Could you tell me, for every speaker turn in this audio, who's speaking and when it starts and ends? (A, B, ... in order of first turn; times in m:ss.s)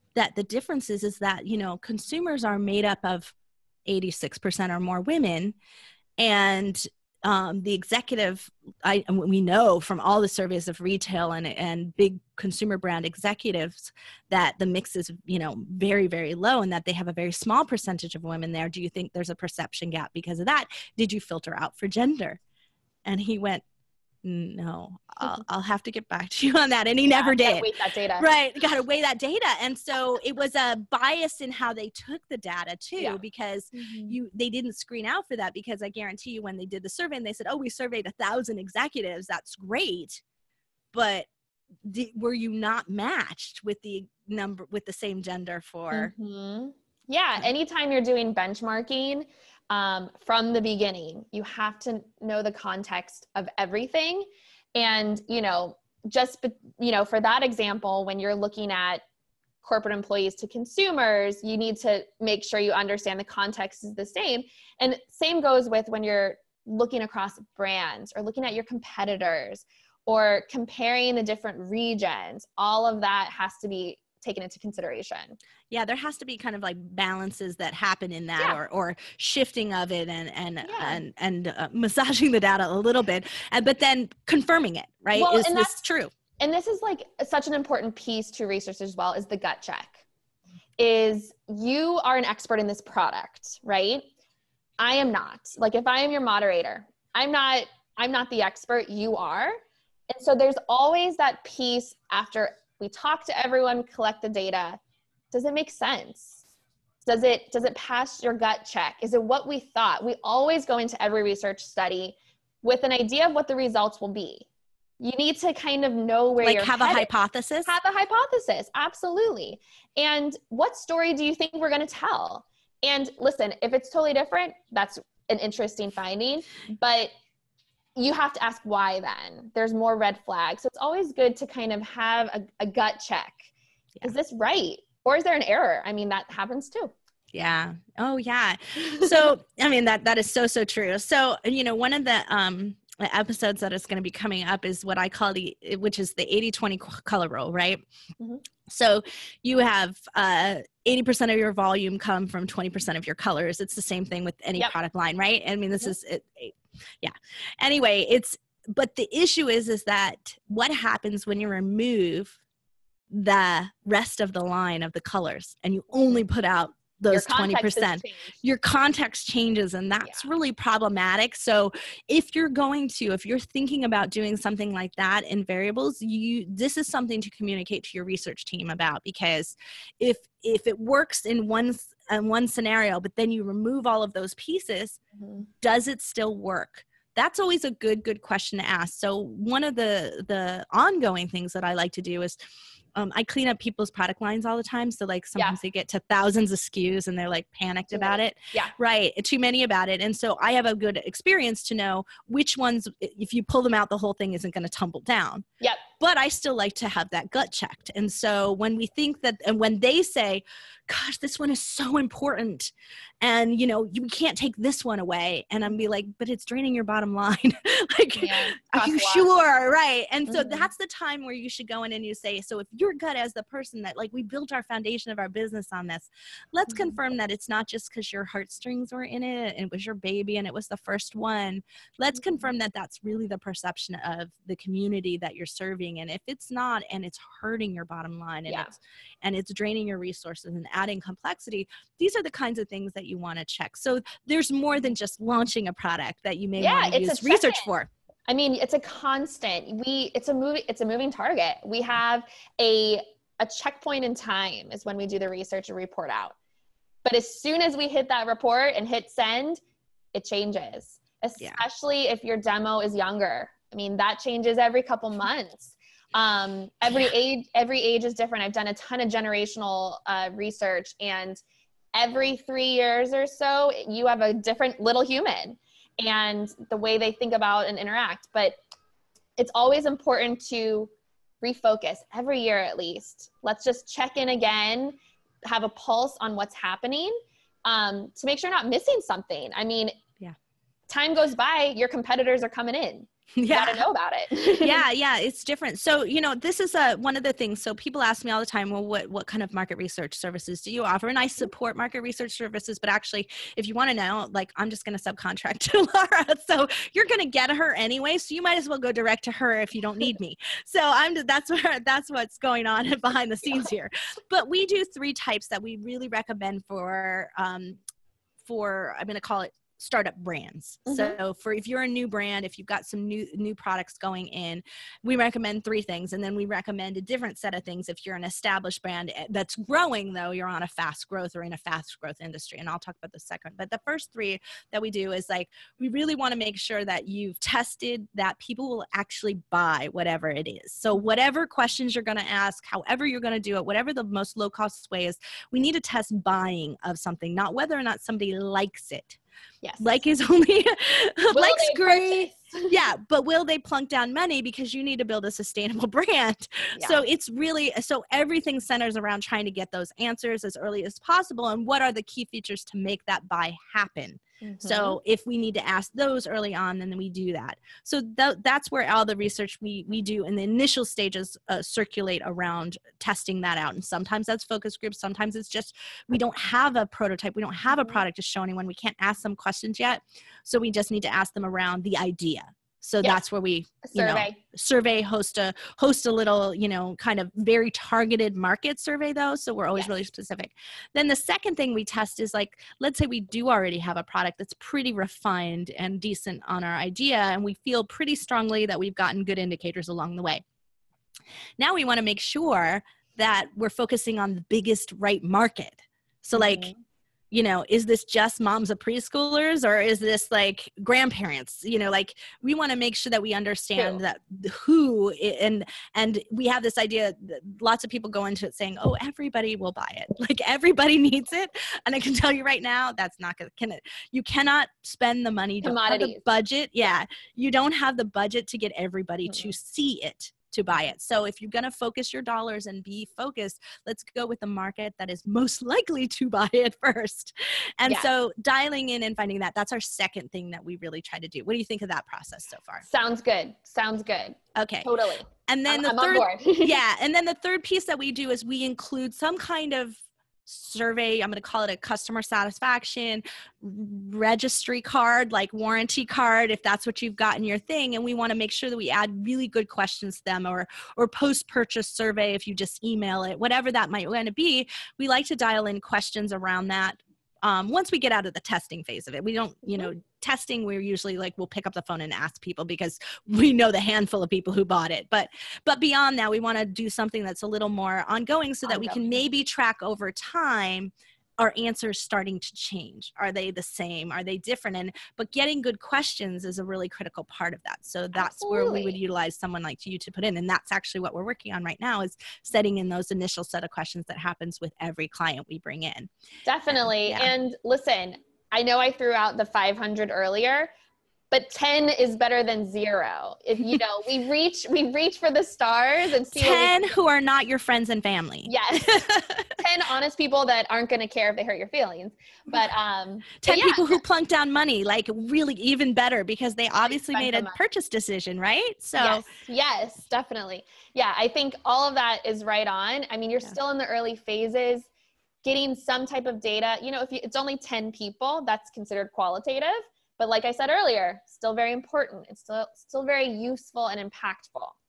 0:00.1-0:03.3 A
0:03.8-0:05.6 A
0:06.2-0:22.4 A
0:23.0-0:23.6 A
0:24.2-0:40.2 A
0:27.1-0:28.3 B
0:33.7-0:34.2 B
0:40.9-0:41.3 A
0:41.8-0:46.1 A
0:45.9-0:59.0 B
0:59.6-1:15.4 B
1:15.7-1:26.1 A
1:20.6-1:21.0 B
1:25.1-1:25.8 B
1:26.4-1:30.0 B
1:30.8-1:34.1 B
1:34.8-1:39.6 B
1:40.1-1:44.8 B
1:45.3-1:46.4 B
1:47.0-1:54.4 B
1:55.0-1:57.1 B
1:56.4-1:57.7 A
1:57.6-2:07.1 B
2:08.0-2:13.5 B
2:14.0-2:16.9 B
2:17.3-2:27.8 A
2:28.7-2:42.4 A
2:43.1-3:05.0 A
2:47.1-2:48.3 B
3:05.2-3:05.4 B
3:05.6-3:12.4 A
3:12.9-3:25.4 A
3:17.9-3:18.7 B
3:26.0-4:07.9 A
3:38.2-3:39.3 B
3:40.3-3:40.7 B
3:58.5-3:58.7 B
4:06.6-4:07.7 B
4:08.3-4:16.4 B
4:17.0-4:19.6 B
4:20.1-4:31.4 B
4:31.9-4:38.6 B
4:39.4-4:50.0 B
4:50.9-4:54.8 B
4:53.4-4:53.8 A
4:54.6-5:17.8 A
5:18.4-5:49.2 A
5:20.8-5:21.2 B
5:49.6-5:50.0 B
5:49.8-6:40.4 A
5:51.3-5:52.7 B
5:56.7-5:57.0 B
6:04.4-6:05.0 B
6:17.7-6:18.0 B
6:23.8-6:24.4 B
6:41.6-6:46.7 A
6:46.3-6:46.8 B
6:47.3-7:22.8 A
7:05.6-7:06.2 B
7:22.8-7:26.8 B
7:24.5-7:24.9 A
7:25.5-8:16.1 A
7:58.6-7:59.2 B
8:08.1-8:09.0 B
8:16.4-8:20.7 B
8:16.7-8:17.3 A
8:21.3-8:26.7 B
8:26.3-8:29.6 A
8:28.4-8:34.0 B
8:33.4-8:39.2 A
8:37.0-8:37.6 B
8:39.0-8:44.9 B
8:45.4-8:54.8 B